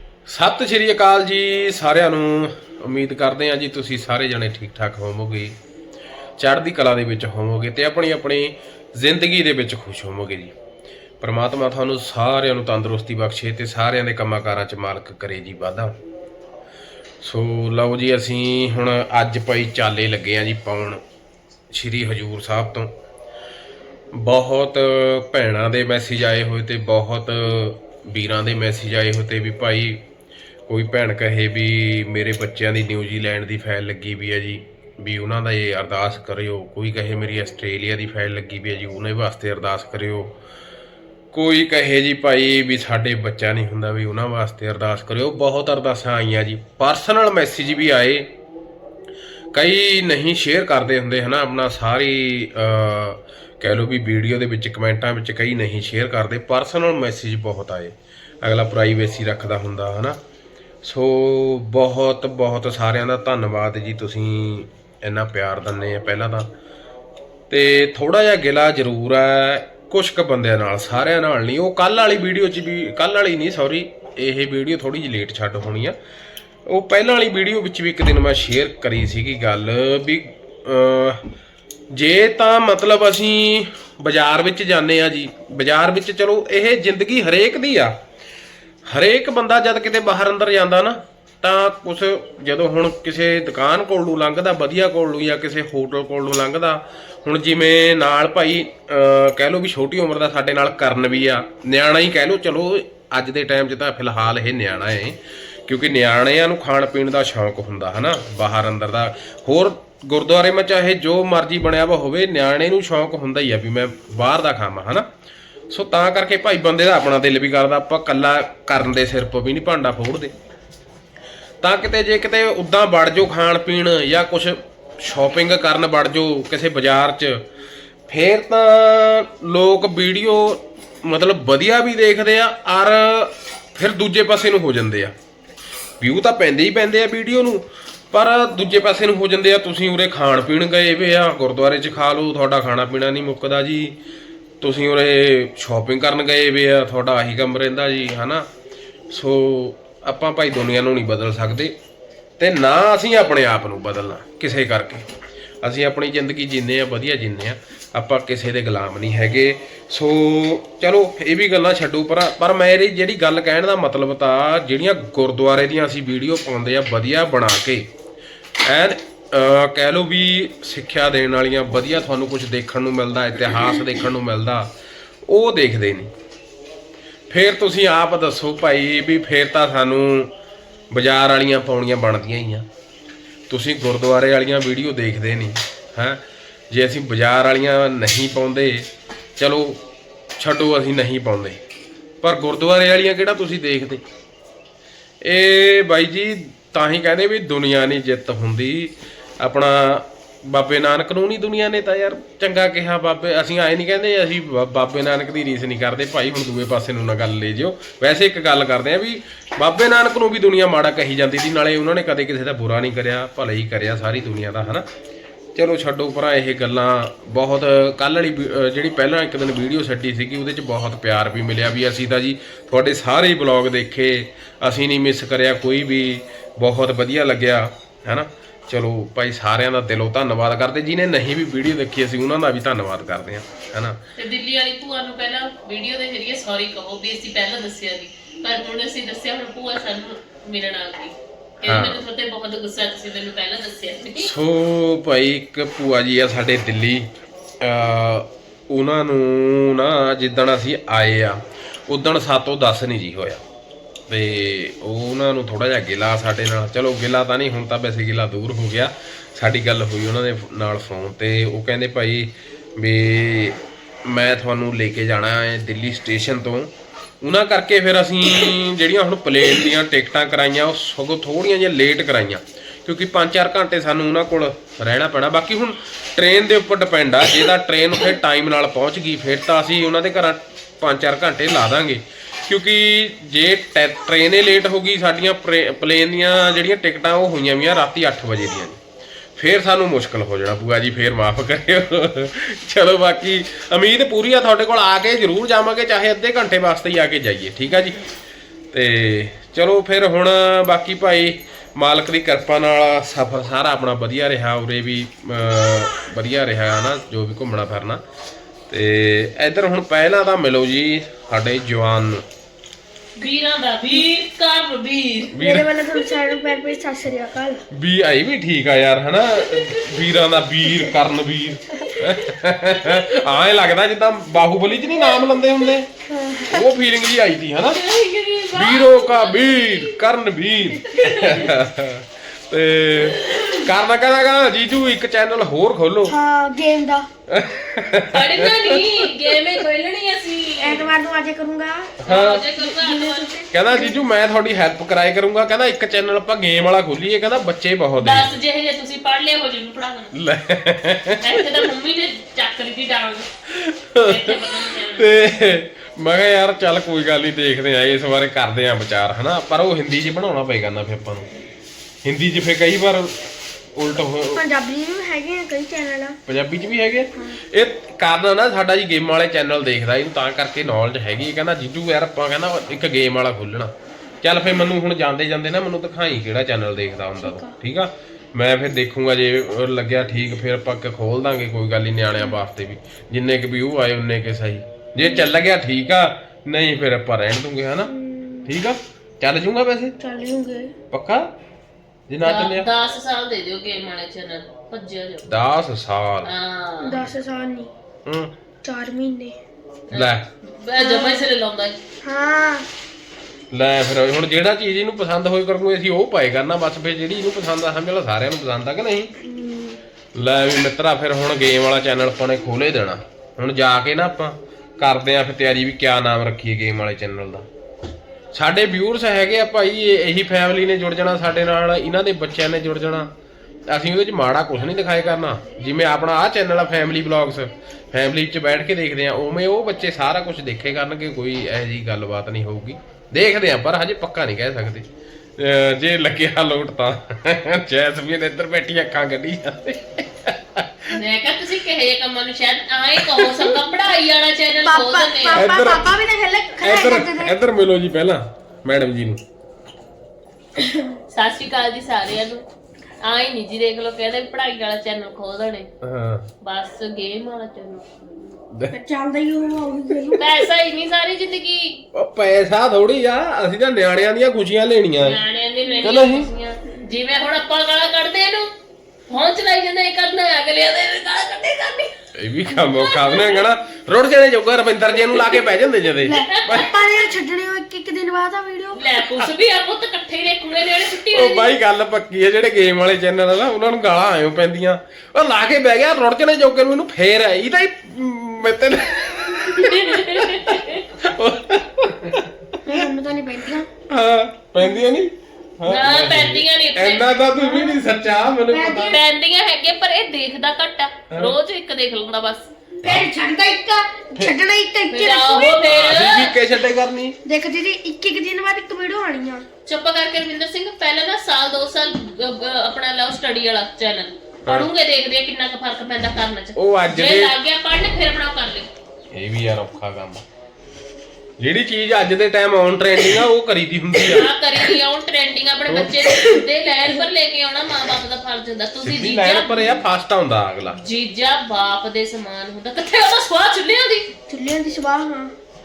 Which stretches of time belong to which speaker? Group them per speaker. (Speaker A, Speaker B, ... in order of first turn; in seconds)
Speaker A: 0.3-5.5, 6.4-10.5, 11.2-16.0, 17.2-21.0, 21.7-22.9, 24.1-30.0, 30.7-40.3, 41.3-48.3, 49.5-60.2, 60.8-66.5, 67.5-76.0, 76.7-81.2, 81.9-88.0, 88.9-115.0, 115.7-120.3, 121.6-127.4, 128.1-135.1, 136.0-143.9, 144.6-148.5, 149.1-151.7, 152.4-155.1, 155.6-167.9, 168.6-174.7, 175.2-176.1, 177.3-180.3, 180.9-182.7, 183.5-189.8, 190.4-191.6, 192.2-194.0, 195.2-214.8, 215.6-234.0, 241.6-242.0, 244.1-253.4, 254.1-288.8, 289.4-298.0, 298.7-308.0, 308.7-312.2, 315.3-315.8, 317.7-325.9, 326.5-327.8, 328.5-336.1, 337.3-339.1, 342.0-342.5, 343.5-348.3, 350.1-351.6, 353.5-354.4, 354.9-361.3, 362.0-363.2, 363.7-364.4, 366.3-387.9, 388.4-389.9, 390.9-391.3, 392.1-392.7, 395.3-396.3, 398.1-398.3, 399.9-400.2, 403.5-409.1, 410.1-417.5, 418.3-423.1, 423.7-434.9, 435.4-440.9, 443.0-443.5, 445.3-445.9, 446.6-449.2, 455.8-456.3, 461.9-465.2, 465.8-466.3, 472.2-476.7, 481.1-492.8, 493.9-499.0, 501.1-501.4, 505.6-507.2, 516.5-517.3, 519.1-520.2, 521.4-524.3, 525.7-526.0, 528.8-530.8
Speaker B: 234.2-244.3, 313.1-315.4, 319.3-319.9, 321.9-322.3, 324.8-325.7, 327.7-330.0, 330.8-331.5, 333.0-333.7, 338.1-340.9, 342.0-343.4, 348.0-350.2, 351.2-353.3, 354.0-355.3, 392.2-395.4, 396.2-397.0, 399.9-401.8, 440.9-445.5, 451.1-452.4, 453.0-455.7, 456.4-457.9, 460.2-461.8, 465.0-468.5, 469.1-471.9, 472.7-473.4, 475.1-475.4, 476.1-476.7, 478.7-481.6, 489.5-490.9, 495.7-497.1, 498.8-502.5, 504.9-506.4, 509.6-518.7, 524.0-529.8, 530.7-534.1
Speaker C: 315.4-317.6, 326.1-326.7, 336.0-337.1, 340.6-342.0, 342.6-344.0, 364.3-366.2, 367.1-367.4, 377.1-377.6, 385.0-385.3, 387.8-388.5, 390.0-390.8, 396.8-397.7, 398.6-399.4, 400.8-401.3, 402.0-402.7, 409.2-409.8, 444.6-447.4, 450.6-450.9, 458.7-460.3, 476.0-478.8, 492.6-493.7, 497.4-497.8, 498.5-499.0, 502.8-505.6, 507.2-509.4, 534.3-535.3